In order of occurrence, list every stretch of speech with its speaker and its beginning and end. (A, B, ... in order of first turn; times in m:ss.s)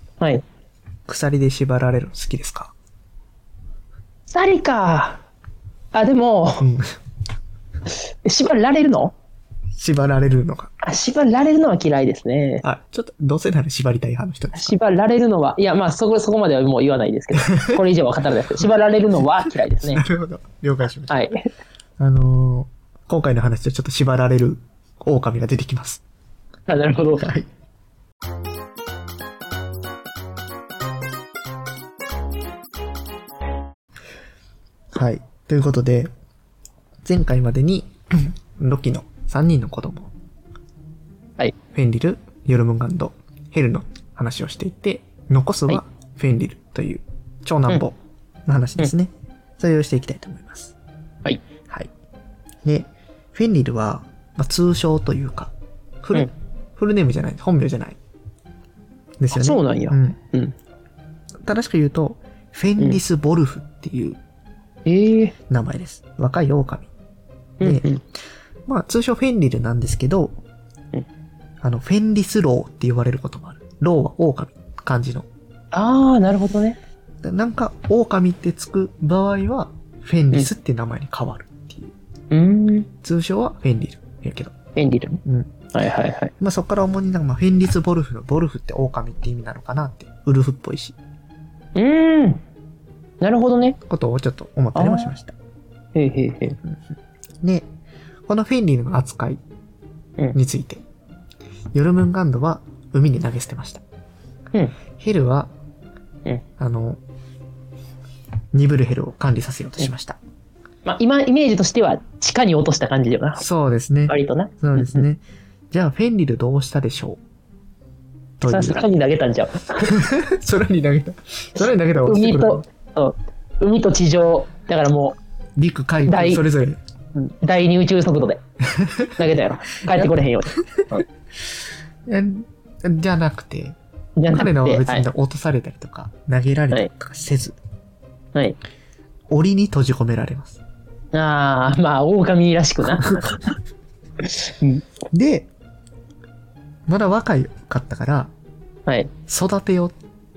0:01.1-0:02.7 A
0:04.3-0:05.2 B
0:05.9-0:06.6 B
0:06.6-0:06.9 A
0:08.2-0:09.2 B
0:09.8-0:10.7 A
0:10.8-0:12.6 B
0:12.6-0:14.8 A
0:14.5-0:20.0 B
0:17.4-0:17.8 A
0:19.8-0:21.3 A
0:21.1-0:21.4 B
0:22.0-0:26.0 A
0:26.7-0:27.3 B
0:27.2-0:27.5 A
0:34.9-0:36.1 A
0:37.0-0:40.1 A
0:41.7-0:50.8 A
0:52.6-0:58.0 A
0:59.2-1:00.2 A
0:59.3-1:00.5 B
1:01.5-1:04.2 A
1:04.9-1:05.3 B
1:05.5-1:06.9 A
1:07.6-1:08.0 B
1:07.6-1:07.9 A
1:08.7-1:10.3 A
1:11.6-1:15.3 A
1:15.7-1:16.8 B
1:17.2-1:21.9 A
1:22.3-1:22.9 B
1:23.0-1:24.5 A
1:24.8-1:25.2 B
1:25.2-1:25.6 A
1:25.7-1:26.3 B
1:26.4-1:31.0 A
1:31.8-1:32.4 B
1:33.2-1:33.8 B
1:33.9-1:35.3 A
1:34.8-1:35.1 B
1:36.0-1:36.6 B
1:37.4-1:37.7 A
1:38.3-1:39.4 A
1:40.3-1:40.8 A
1:41.7-1:43.8 A
1:45.0-1:45.5 A
1:46.6-1:47.0 A
1:48.5-1:50.2 A
1:50.8-1:53.4 B
1:53.4-1:57.2 A
1:54.1-1:55.0 B
1:58.4-1:58.8 A
1:58.5-1:59.9 B
1:59.8-2:02.7 A
2:02.0-2:05.2 B
2:05.6-2:06.8 A
2:06.1-2:06.4 B
2:07.2-2:08.4 B
2:08.7-2:09.2 A
2:09.2-2:11.0 B
2:12.1-2:13.8 A
2:14.2-2:15.1 B
2:14.3-2:17.6 A
2:19.3-2:20.6 A
2:21.1-2:23.5 B
2:22.8-2:23.4 A
2:24.2-2:24.8 B
2:25.1-2:25.5 A
2:26.9-2:28.3 A
2:29.3-2:30.0 A